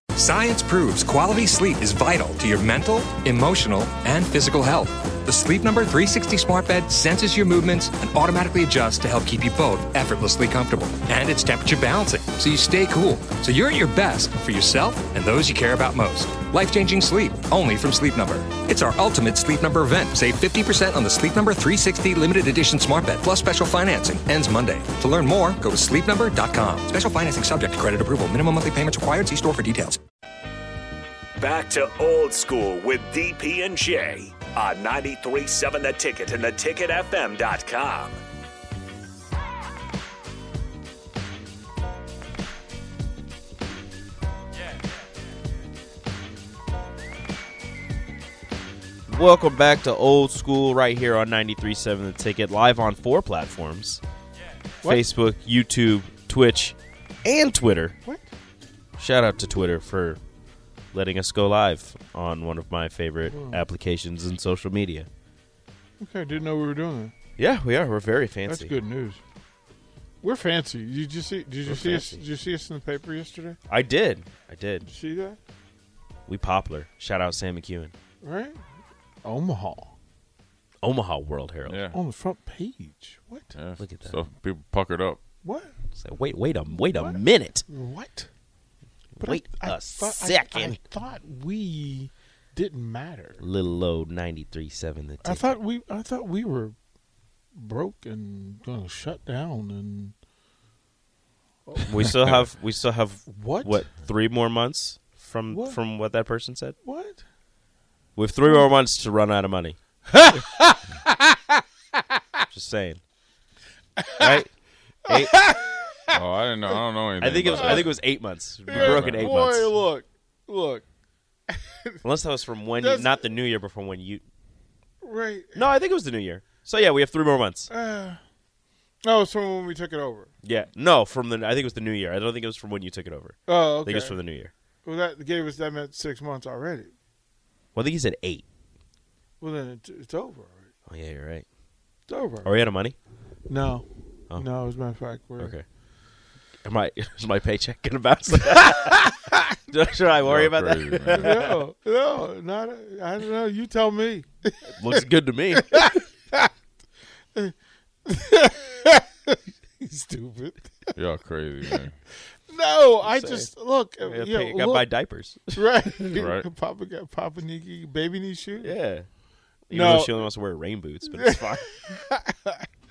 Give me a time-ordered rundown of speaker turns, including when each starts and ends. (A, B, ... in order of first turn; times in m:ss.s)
0:00.2-0:30.0 A
0:31.4-0:38.2 B
0:49.1-0:54.0 C
0:54.8-0:58.0 C
0:59.0-1:00.2 C
1:00.9-1:05.1 C
1:03.3-1:03.6 D
1:06.0-1:07.1 D
1:07.4-1:08.7 C
1:08.4-1:09.2 D
1:10.2-1:13.6 D
1:11.6-1:12.2 C
1:13.7-1:14.9 C
1:14.9-1:15.4 D
1:16.3-1:17.9 C
1:18.2-1:18.6 D
1:19.2-1:19.9 D
1:20.8-1:21.8 C
1:21.7-1:22.0 E
1:21.9-1:23.5 D
1:23.5-1:25.2 E
1:23.8-1:24.2 C
1:25.4-1:25.7 D
1:25.9-1:27.6 C
1:26.8-1:28.3 D
1:29.2-1:30.8 C
1:29.2-1:33.4 D
1:33.4-1:35.6 C
1:35.2-1:36.7 D
1:37.5-1:40.1 D
1:41.7-1:42.3 D
1:41.8-1:46.8 C
1:43.3-1:43.8 D
1:45.5-1:45.8 D
1:46.8-1:47.2 D
1:48.2-1:49.8 C
1:50.1-1:51.6 D
1:52.5-1:53.0 C
1:54.0-1:54.4 D
1:54.2-1:54.5 C
1:55.1-1:55.3 C
1:55.1-1:56.2 D
1:56.1-1:58.0 E
1:57.2-1:59.7 C
1:57.5-1:57.9 D
1:58.6-2:00.8 D
1:58.7-1:59.3 E
2:01.5-2:02.0 D
2:02.0-2:04.2 C
2:02.8-2:03.2 D
2:05.0-2:05.7 D
2:05.6-2:07.7 C
2:07.7-2:08.2 D
2:09.0-2:10.3 D
2:10.4-2:14.5 C
2:13.5-2:14.2 D
2:14.8-2:16.9 D
2:17.7-2:18.4 C
2:19.4-2:20.7 D
2:20.9-2:21.4 C
2:22.1-2:22.5 D
2:22.4-2:23.0 C
2:23.5-2:25.5 D
2:25.4-2:25.6 C
2:26.6-2:29.1 C
2:29.7-2:31.5 C
2:30.2-2:31.3 E
2:31.1-2:35.0 D
2:34.8-2:35.7 C
2:35.5-2:36.5 D
2:38.0-2:40.9 D
2:41.0-2:41.9 E
2:42.5-2:44.8 D
2:43.0-2:43.5 C
2:44.0-2:45.6 C
2:45.5-2:48.8 D
2:46.1-2:46.4 E
2:48.6-2:49.1 C
2:49.7-2:51.7 C
2:49.7-2:50.2 D
2:51.2-2:52.6 D